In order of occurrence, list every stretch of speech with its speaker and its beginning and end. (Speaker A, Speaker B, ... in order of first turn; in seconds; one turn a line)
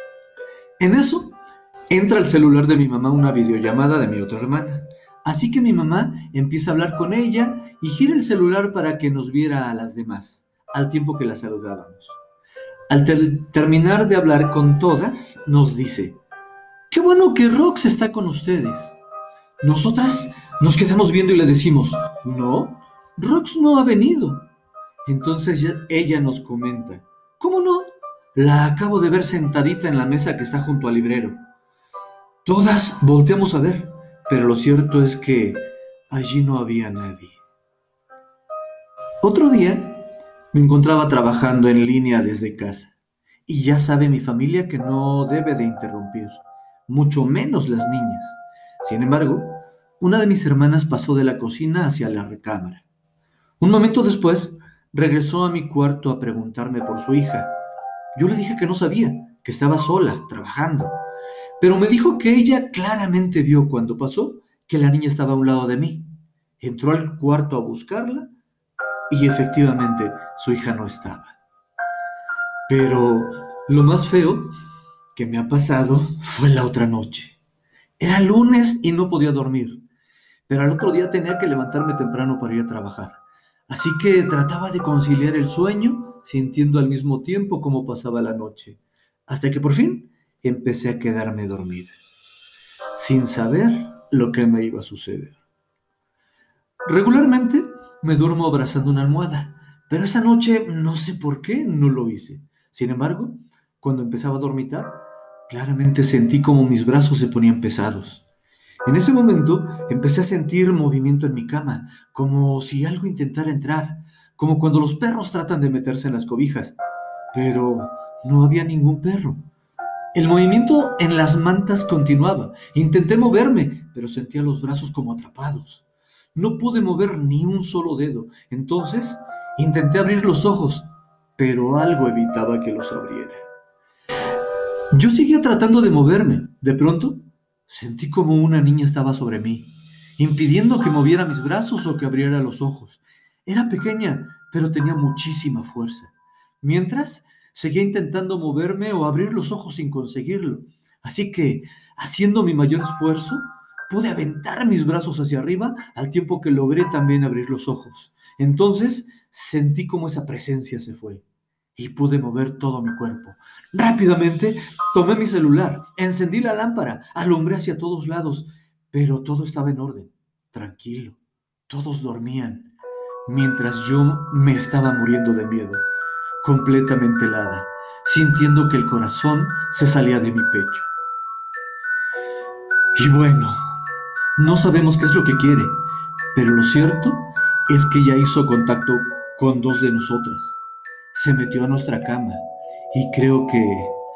Speaker A: 0.8-1.4
Speaker A: 1.9-12.2
Speaker A: 12.9-16.2
Speaker A: 16.9-19.0
Speaker A: 19.6-24.5
Speaker A: 25.1-31.4
Speaker A: 32.4-37.4
Speaker A: 39.2-42.9
Speaker A: 43.5-52.8
Speaker A: 53.6-57.5
Speaker A: 58.1-61.0
Speaker A: 61.6-68.3
Speaker A: 69.1-71.4
Speaker A: 72.7-74.5
Speaker A: 75.1-77.4
Speaker A: 78.0-79.8
Speaker A: 80.5-92.0
Speaker A: 92.9-95.4
Speaker A: 96.8-108.2
Speaker A: 108.8-116.8
Speaker A: 117.3-119.4
Speaker A: 120.1-133.4
Speaker A: 134.9-161.2
Speaker A: 161.8-172.7
Speaker A: 173.2-175.8
Speaker A: 176.4-180.9
Speaker A: 182.9-183.7
Speaker A: 184.4-190.6
Speaker A: 191.1-194.0